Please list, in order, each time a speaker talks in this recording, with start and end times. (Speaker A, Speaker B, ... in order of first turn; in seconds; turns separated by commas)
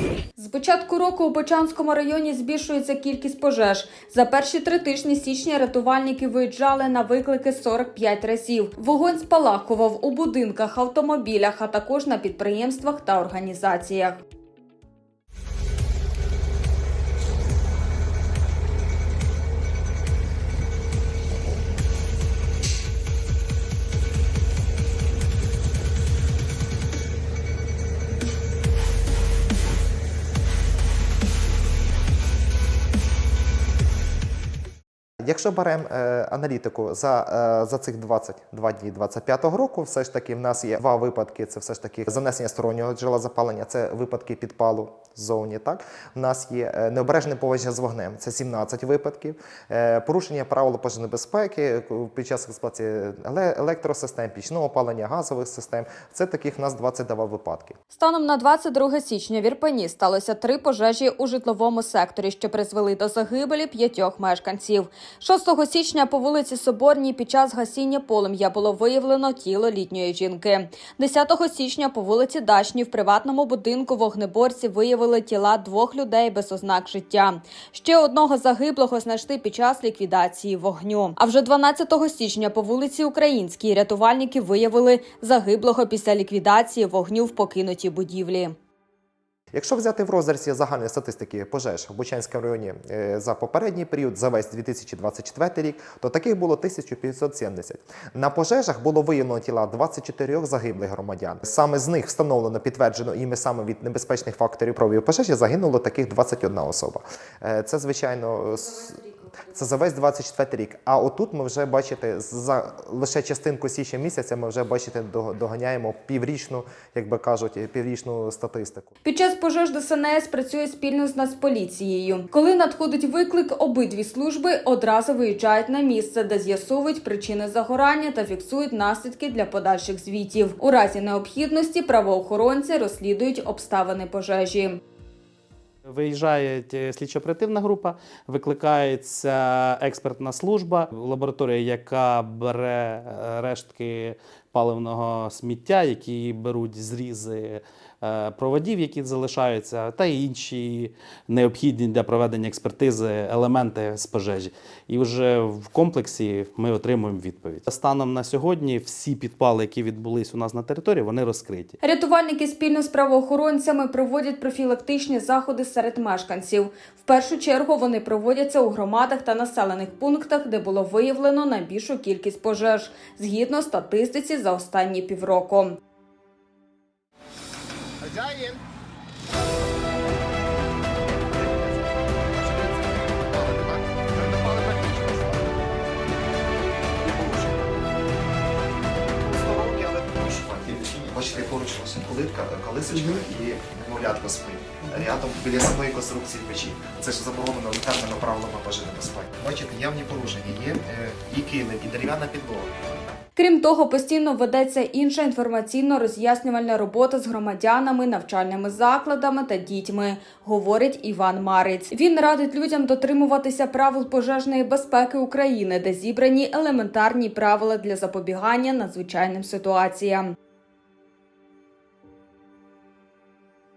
Speaker A: 0.4-14.2, Speaker B: 35.2-57.8, Speaker A: 57.9-88.5, Speaker B: 89.5-118.9, Speaker A: 119.0-134.8, Speaker C: 135.9-161.7, Speaker A: 161.8-175.8, Speaker D: 178.0-178.5, Speaker B: 181.3-181.7, Speaker B: 182.4-185.4, Speaker B: 187.1-187.4, Speaker D: 189.3-200.1, Speaker B: 189.8-202.7, Speaker A: 203.3-220.3